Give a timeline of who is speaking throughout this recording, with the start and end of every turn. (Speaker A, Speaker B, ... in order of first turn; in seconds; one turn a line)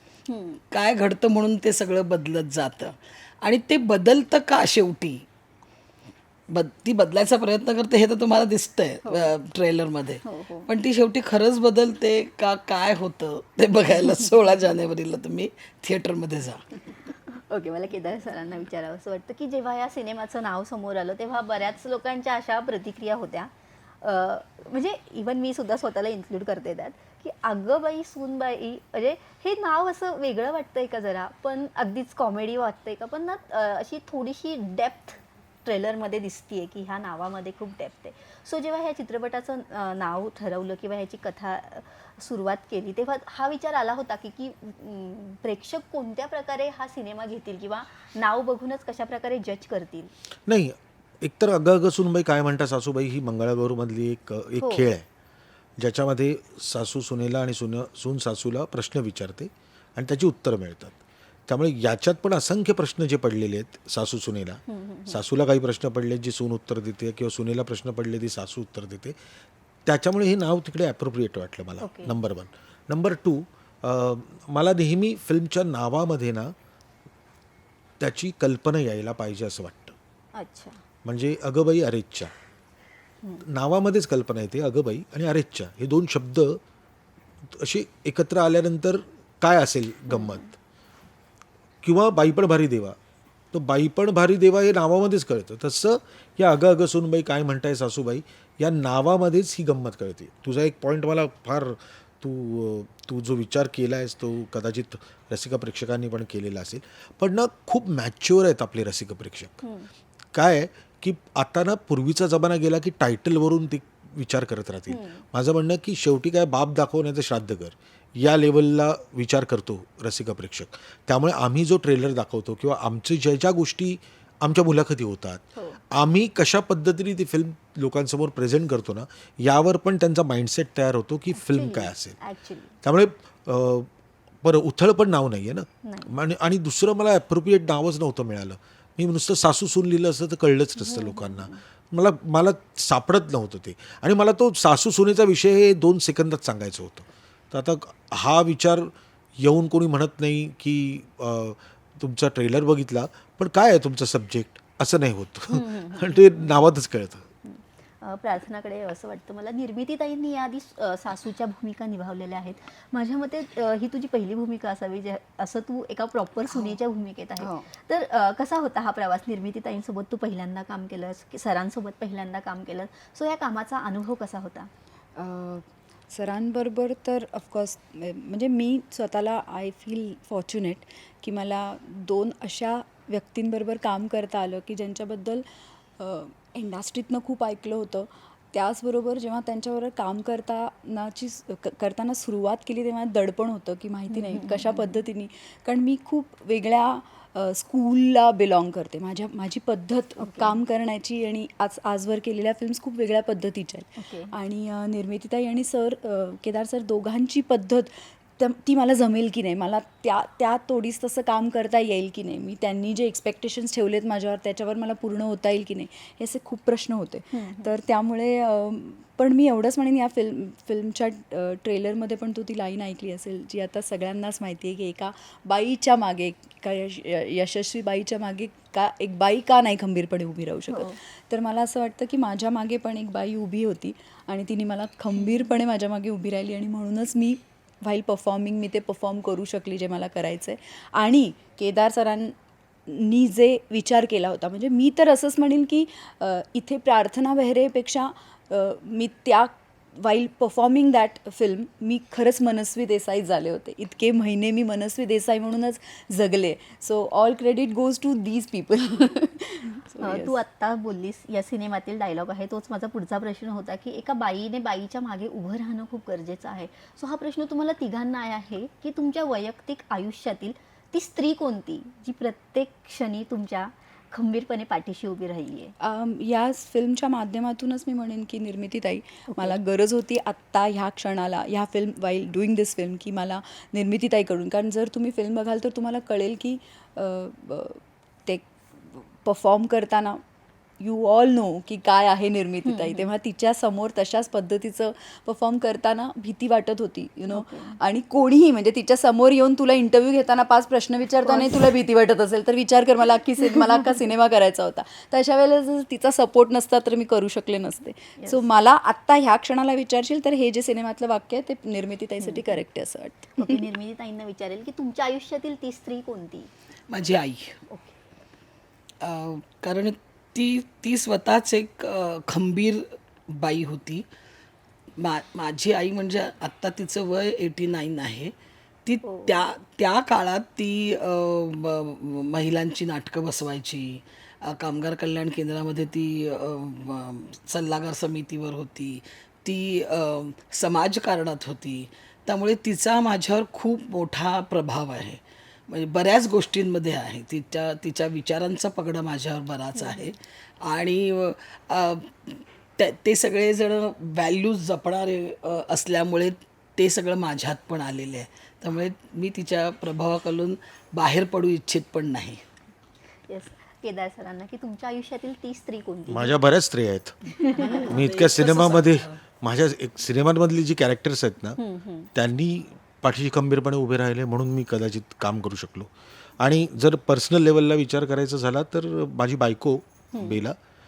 Speaker A: 0.3-0.6
Speaker B: 0.7-5.2
Speaker B: 6.5-16.7
Speaker A: 9.1-9.3
Speaker A: 10.2-10.7
Speaker A: 17.1-50.1
Speaker C: 50.5-55.0
Speaker A: 54.6-54.9
Speaker C: 55.8-61.0
Speaker C: 61.5-69.2
Speaker A: 64.7-65.2
Speaker C: 69.9-76.5
Speaker A: 71.8-72.2
Speaker C: 78.0-80.0
Speaker A: 80.3-80.8
Speaker C: 81.0-82.3
Speaker C: 83.5-86.6
Speaker C: 87.5-90.5
Speaker A: 90.1-90.5
Speaker C: 91.8-93.0
Speaker C: 93.5-109.6
Speaker A: 109.6-109.9
Speaker C: 110.3-132.2
Speaker A: 114.9-115.2
Speaker A: 131.3-132.7
Speaker C: 132.8-133.9
Speaker C: 134.4-157.3
Speaker A: 135.8-136.1
Speaker A: 140.8-141.6
Speaker A: 155.5-156.7
Speaker A: 157.4-174.7
Speaker D: 166.5-166.8
Speaker D: 167.4-167.7
Speaker D: 175.2-185.4
Speaker D: 186.0-242.3
Speaker A: 194.1-195.0
Speaker A: 200.2-200.6
Speaker A: 204.0-204.3
Speaker A: 217.3-217.7
Speaker A: 230.7-230.9
Speaker A: 235.2-235.5
Speaker D: 242.9-260.4
Speaker A: 260.0-275.7
Speaker D: 275.8-290.2
Speaker A: 279.3-279.6
Speaker D: 290.8-313.6
Speaker A: 292.6-293.1
Speaker A: 297.3-297.8
Speaker A: 301.2-301.6
Speaker A: 303.4-303.9
Speaker A: 308.2-308.4
Speaker A: 312.2-312.6
Speaker A: 313.4-316.5
Speaker B: 316.9-317.6
Speaker A: 317.7-318.0
Speaker B: 319.0-324.1
Speaker B: 325.0-328.3
Speaker B: 328.9-362.4
Speaker A: 329.1-329.4
Speaker A: 349.8-350.1
Speaker A: 363.3-366.4
Speaker C: 366.1-367.1
Speaker B: 367.4-369.1
Speaker A: 367.5-367.7
Speaker C: 367.7-371.6
Speaker A: 371.6-372.1
Speaker C: 372.1-380.6
Speaker A: 380.1-380.4